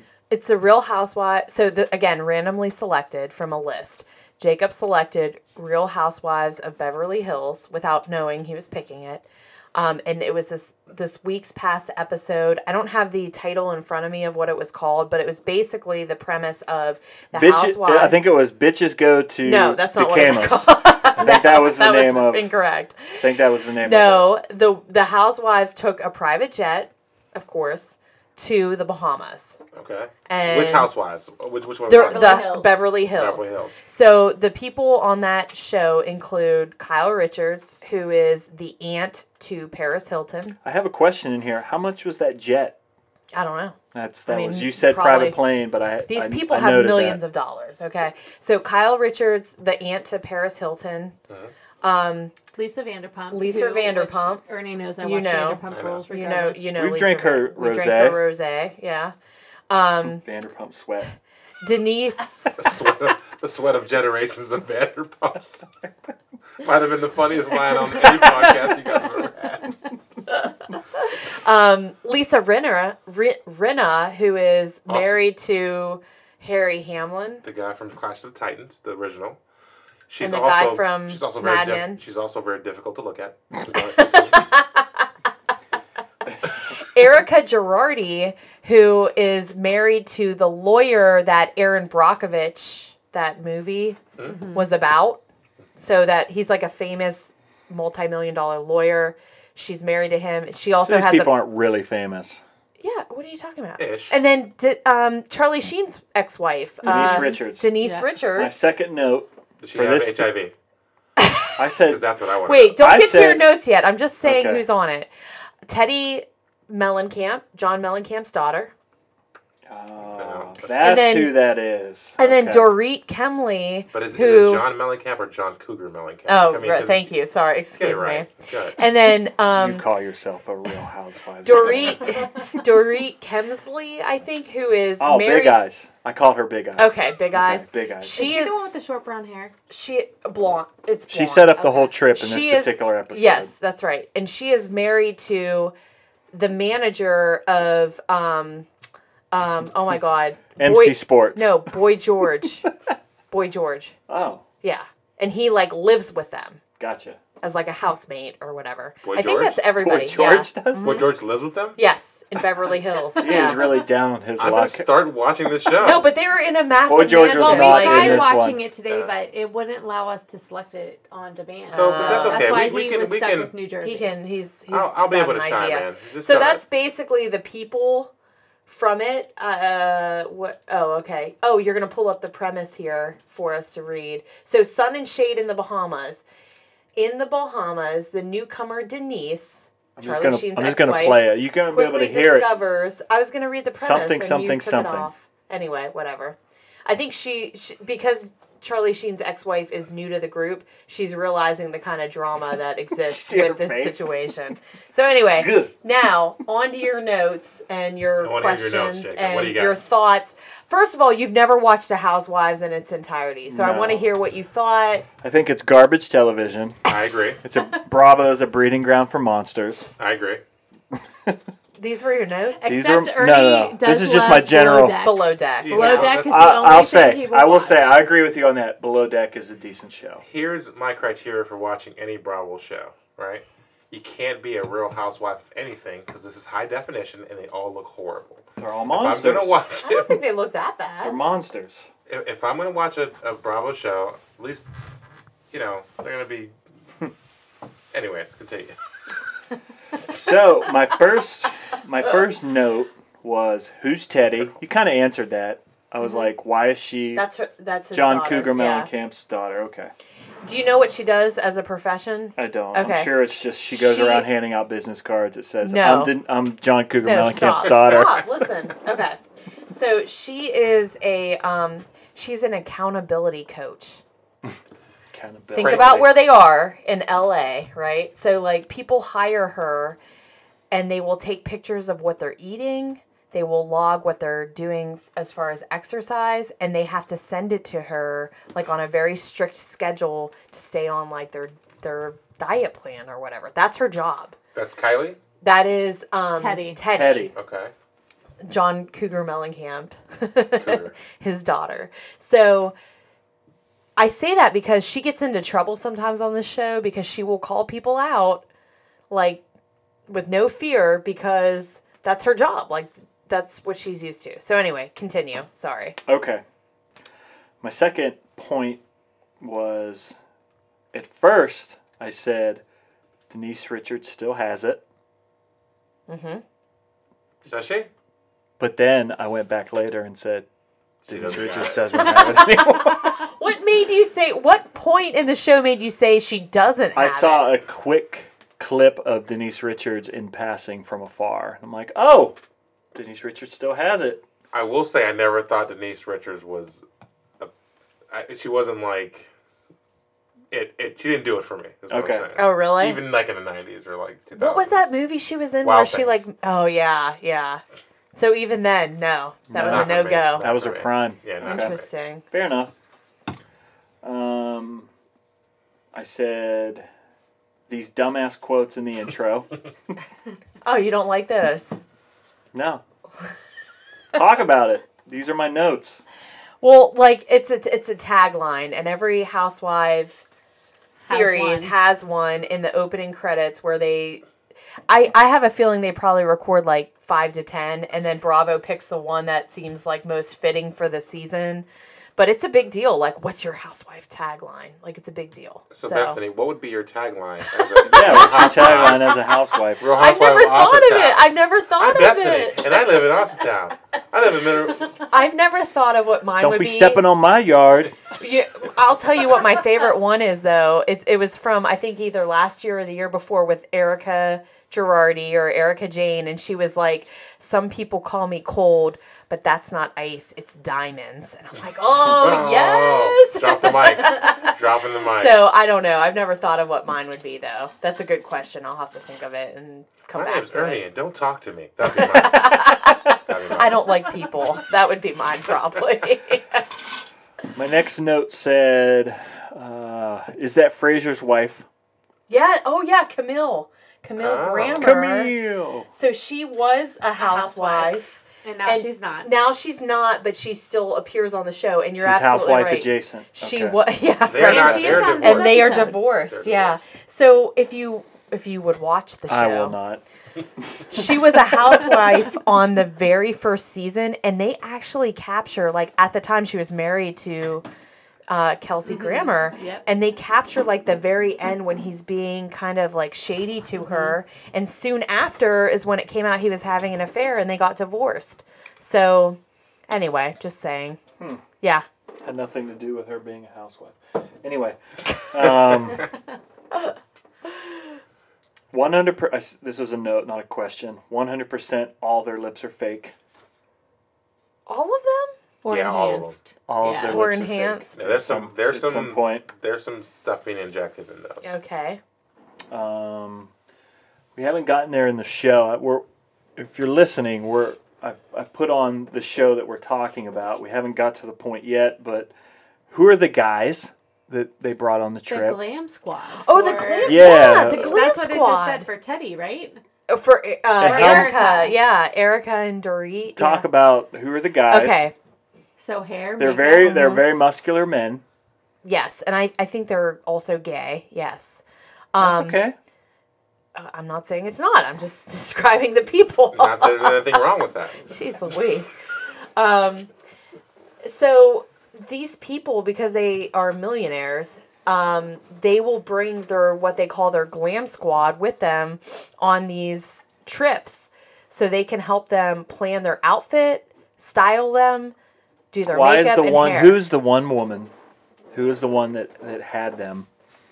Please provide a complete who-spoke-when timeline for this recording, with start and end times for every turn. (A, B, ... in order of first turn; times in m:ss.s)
0:00.3-0:18.2 A
0:17.3-0:22.5 B
0:19.4-0:23.2 A
0:23.2-0:24.3 B
0:23.8-0:29.6 A
0:29.7-0:32.5 C
0:30.3-0:30.9 A
0:31.9-0:40.6 A
0:31.9-0:32.8 D
0:33.1-0:33.8 C
0:40.6-0:42.8 B
0:43.3-0:45.4 A
0:43.9-0:47.2 B
0:46.1-0:51.1 A
0:51.8-0:52.3 A
0:52.5-0:56.7 D
0:53.3-0:54.4 A
0:55.0-0:59.1 A
0:55.7-0:56.0 C
0:56.7-0:58.2 B
0:59.7-1:00.2 A
1:00.1-1:01.1 B
1:01.6-1:02.7 A
1:02.6-1:05.7 C
1:06.6-1:09.8 C
1:10.3-1:17.4 A
1:14.9-1:15.2 C
1:17.4-1:19.4 C
1:20.1-1:24.4 C
1:20.2-1:22.0 A
1:23.9-1:25.0 A
1:26.8-1:35.2 A
1:34.2-1:34.7 D
1:35.8-1:41.3 A
1:40.8-1:42.4 B
1:42.8-1:48.6 A
1:43.8-1:44.2 C
1:46.8-1:48.1 D
1:46.8-1:47.7 B
1:48.3-1:50.3 B
1:49.6-1:50.5 C
1:51.2-1:51.5 A
1:51.6-1:52.0 B
1:51.8-1:52.8 C
1:52.5-1:55.1 A
1:52.8-1:53.6 B
1:54.2-1:54.6 B
1:55.7-1:58.7 A
1:59.7-2:02.7 B
2:00.0-2:00.8 C
2:00.8-2:01.4 A
2:02.2-2:04.7 A
2:03.9-2:07.1 C
2:06.3-2:09.9 A
2:07.8-2:08.8 C
2:09.5-2:12.2 B
2:11.4-2:15.7 A
2:11.6-2:11.9 C
2:15.0-2:18.1 B
2:16.8-2:18.6 A
2:18.1-2:19.5 D
2:19.7-2:25.7 A
2:21.1-2:23.5 B
2:26.3-2:28.7 A
2:29.3-2:32.7 A
2:30.6-2:31.8 B
2:33.3-2:34.0 A
2:34.1-2:34.4 B
2:34.6-2:36.6 A
2:36.8-2:37.2 B
2:37.4-2:41.1 A
2:39.0-2:39.7 C
2:39.8-2:41.1 B
2:40.8-2:41.8 C
2:41.8-2:43.7 A
2:43.2-2:43.8 D
2:43.2-2:44.9 B
2:44.4-2:46.1 C
2:45.8-2:48.3 A
2:46.9-2:48.6 B
2:47.2-2:54.1 D
2:51.7-2:52.5 A
2:51.7-2:53.5 C
2:53.8-2:58.1 A
2:54.7-2:56.6 C
2:58.7-3:06.2 A
3:07.0-3:35.1 A
3:10.0-3:12.5 B
3:13.8-3:15.1 B
3:23.0-3:24.1 B
3:25.3-3:25.7 B
3:28.2-3:29.8 C
3:33.5-3:34.1 B
3:35.2-3:36.8 B
3:36.8-3:37.4 C
3:37.4-3:39.9 B
3:40.0-3:40.4 C
3:40.9-3:41.4 B
3:41.8-3:42.7 A
3:42.6-3:48.0 D
3:42.7-3:45.0 B
3:45.0-3:46.2 A
3:45.6-3:46.6 C
3:46.2-3:50.2 B
3:50.2-4:00.2 C
3:58.6-3:59.6 B
3:59.8-4:01.2 A
4:01.0-4:01.9 B
4:02.1-4:04.7 C
4:05.5-4:06.5 C
4:07.9-4:08.8 C
4:10.1-4:17.2 B
4:16.0-4:16.3 A
4:17.1-4:18.9 A
4:17.9-4:19.9 B
4:20.4-4:23.2 A
4:22.4-4:28.3 B
4:23.7-4:24.3 A
4:25.6-4:26.1 A
4:27.0-4:29.2 A
4:27.8-4:28.1 C
4:29.7-4:34.0 A
4:35.1-4:36.2 B
4:35.6-4:36.0 C
4:35.6-4:40.0 A
4:40.7-4:54.4 A
4:54.6-4:55.2 C
4:55.4-4:57.3 A
4:56.4-4:56.8 D
4:56.9-4:57.3 B
4:57.3-4:57.7 C
4:58.4-5:02.8 A
5:00.6-5:01.0 C
5:04.0-5:08.4 A
5:09.1-5:09.4 A
5:10.1-5:16.0 A
5:16.1-5:16.4 B
5:17.6-5:18.8 B
5:19.4-5:20.2 B
5:20.9-5:22.6 B
5:23.3-5:24.8 B
5:26.1-5:26.4 A
5:27.4-5:27.9 C
5:28.6-5:30.5 B
5:31.0-5:32.1 C
5:31.1-5:33.3 B
5:31.9-5:37.5 A
5:37.0-5:42.4 B
5:43.0-5:44.2 B
5:44.5-5:46.8 C
5:48.1-5:49.3 C
5:50.5-5:54.9 C
5:51.9-5:52.2 B
5:52.4-5:53.0 A
5:54.4-5:57.6 A
5:55.6-5:56.2 C
5:58.1-6:00.5 A
5:59.5-6:01.8 B
5:59.6-6:01.9 C
6:01.4-6:02.2 A
6:02.3-6:02.7 B
6:04.0-6:04.9 B
6:05.9-6:06.9 B
6:07.7-6:09.5 B
6:10.6-6:11.8 A
6:12.5-6:12.8 B
6:14.1-6:16.0 B
6:16.6-6:20.2 A
6:21.0-6:24.2 A
6:21.0-6:21.8 D
6:24.9-6:31.7 A
6:32.2-6:36.2 A
6:35.7-6:39.2 C
6:37.6-6:39.1 A
6:37.8-6:39.9 B
6:39.8-6:44.9 C
6:39.9-6:42.8 A
6:45.1-6:47.0 A
6:46.4-6:47.9 B
6:48.2-7:04.5 A
7:02.0-7:05.4 C
7:05.0-7:10.8 A
7:10.1-7:12.7 C
7:11.9-7:16.7 A
7:13.3-7:13.8 C
7:17.6-7:21.7 B
7:22.3-7:25.3 A
7:24.2-7:24.9 C
7:24.8-7:25.9 B
7:25.9-7:39.8 A
7:27.2-7:29.3 D
7:32.0-7:33.8 B
7:34.2-7:36.8 C
7:34.4-7:36.0 D
7:39.3-7:40.0 B
7:40.6-7:41.3 B
7:40.9-7:47.7 A
7:48.3-8:01.0 A
7:48.9-7:49.8 D
7:53.8-7:54.2 D
8:02.2-8:06.1 B
8:08.7-8:13.1 B
8:14.7-8:15.3 A
8:15.6-8:17.3 D
8:15.6-8:16.4 C
8:16.7-8:19.5 B
8:17.0-8:17.9 A
8:18.0-8:21.5 C
8:21.4-8:22.0 A
8:22.7-8:23.5 B
8:24.4-8:26.0 B
8:26.6-8:32.3 B
8:32.9-8:35.6 B
8:35.3-8:39.8 D
8:36.4-8:38.9 A
8:37.0-8:38.0 B
8:40.1-8:43.6 A
8:40.8-8:41.3 B
8:40.8-8:41.8 D
8:43.4-8:45.1 B
8:44.7-8:45.1 A
8:45.8-8:47.2 D
8:46.4-8:48.2 B
8:46.8-8:47.3 A
8:48.8-8:51.6 A
8:52.1-8:52.6 A
8:52.2-8:52.8 B
8:53.8-8:57.4 A
8:56.5-8:58.2 C
8:58.0-8:59.0 A
8:59.6-9:00.1 A
9:01.0-9:15.1 A
9:15.7-9:17.0 A
9:15.9-9:17.9 B
9:18.5-9:20.3 B